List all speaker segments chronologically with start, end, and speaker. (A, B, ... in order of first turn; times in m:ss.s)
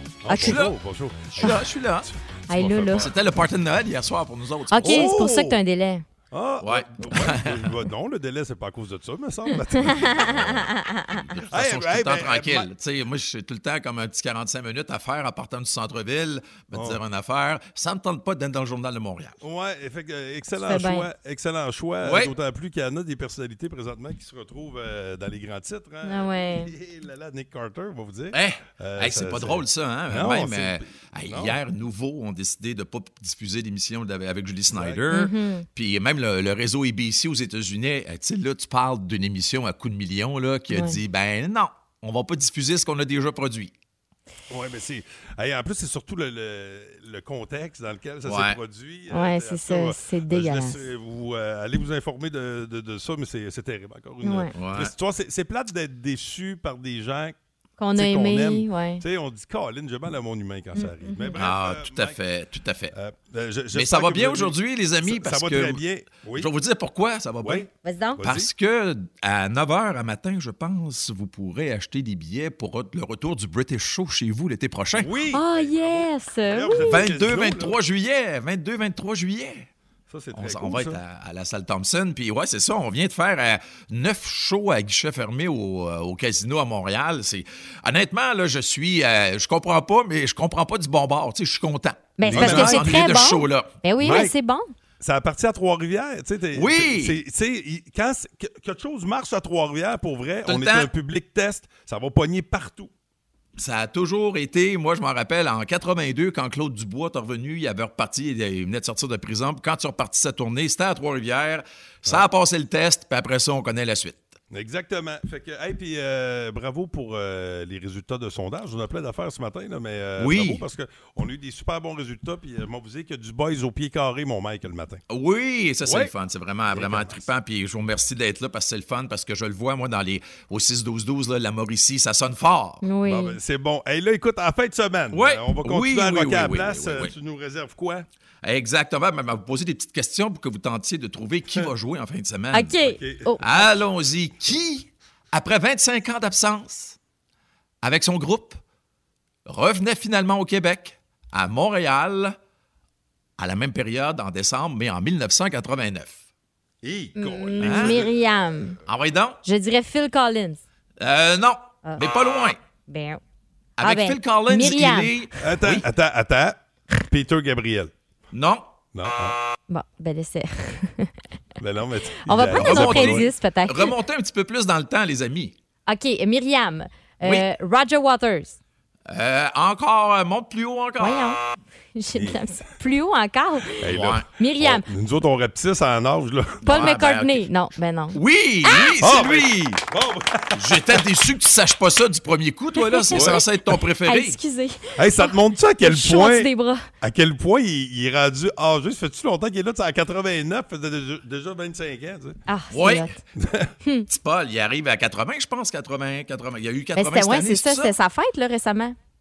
0:00.2-0:03.1 A
0:00.3-0:00.6 B
0:00.4-0:00.7 C
0:01.3-0:02.1 C
0:02.5-0:03.1 B
0:02.8-0:05.1 C
0:04.7-0:06.0 B
0:04.8-0:05.6 A
0:06.3-0:10.7 A
0:06.6-0:07.7 C
0:09.9-0:10.2 B
0:10.7-0:11.2 B
0:11.3-0:19.4 C
0:11.5-0:12.7 A
0:16.7-0:17.0 A
0:19.4-0:31.6 A
0:20.6-0:21.1 B
0:22.0-0:22.3 C
0:26.0-0:26.7 B
0:28.3-0:43.7 C
0:34.7-0:35.0 A
0:35.1-0:35.6 B
0:44.5-0:57.4 A
0:48.2-0:48.6 C
0:49.1-0:50.8 B
0:54.2-0:54.5 B
0:54.5-0:54.9 C
0:57.8-0:59.0 B
0:57.9-1:02.2 A
1:00.8-1:01.4 B
1:01.4-1:02.9 C
1:02.9-1:06.5 A
1:03.7-1:05.8 C
1:06.3-1:07.7 C
1:07.4-1:08.5 A
1:07.8-1:08.2 B
1:08.2-1:15.1 C
1:14.9-1:17.7 A
1:15.3-1:17.0 B
1:16.9-1:19.7 C
1:20.1-1:21.0 A
1:20.3-1:34.3 C
1:32.2-1:34.7 B
1:32.2-1:33.2 A
1:34.0-1:34.3 A
1:35.0-1:42.9 A
1:36.5-1:37.2 C
1:40.4-1:40.9 C
1:43.6-1:54.3 C
1:54.5-2:05.0 A
2:00.2-2:00.6 C
2:05.1-2:12.8 C
2:05.8-2:06.1 A
2:06.7-2:07.2 A
2:12.8-2:13.4 B
2:13.0-2:18.0 A
2:15.1-2:17.1 C
2:18.4-2:27.0 C
2:22.5-2:23.4 B
2:22.8-2:23.7 A
2:27.8-2:28.6 C
2:29.4-2:32.4 C
2:33.4-2:36.2 C
2:36.8-2:38.1 A
2:37.2-2:38.8 B
2:37.6-2:38.0 C
2:38.9-2:39.4 C
2:39.4-2:40.6 B
2:41.0-2:42.6 C
2:42.9-2:43.2 B
2:43.8-2:45.8 C
2:43.8-2:45.2 B
2:45.4-2:47.9 A
2:48.3-2:48.7 C
2:48.9-2:49.4 A
2:49.7-2:51.1 B
2:51.6-2:53.3 A
2:52.3-2:53.9 B
2:52.5-2:55.5 C
2:55.9-2:58.6 B
2:59.1-3:01.3 C
3:01.0-3:01.4 B
3:01.9-3:03.8 B
3:02.1-3:02.4 A
3:03.8-3:06.8 A
3:03.8-3:04.2 C
3:04.4-3:04.8 B
3:06.6-3:07.5 C
3:06.6-3:08.9 B
3:08.1-3:09.8 C
3:09.0-3:11.0 A
3:10.5-3:14.4 C
3:12.8-3:13.4 B
3:13.1-3:13.4 A
3:14.0-3:16.8 B
3:15.0-3:22.4 A
3:22.5-3:23.2 B
3:22.7-3:23.1 C
3:23.4-3:23.7 A
3:24.1-3:27.9 C
3:27.0-3:29.0 B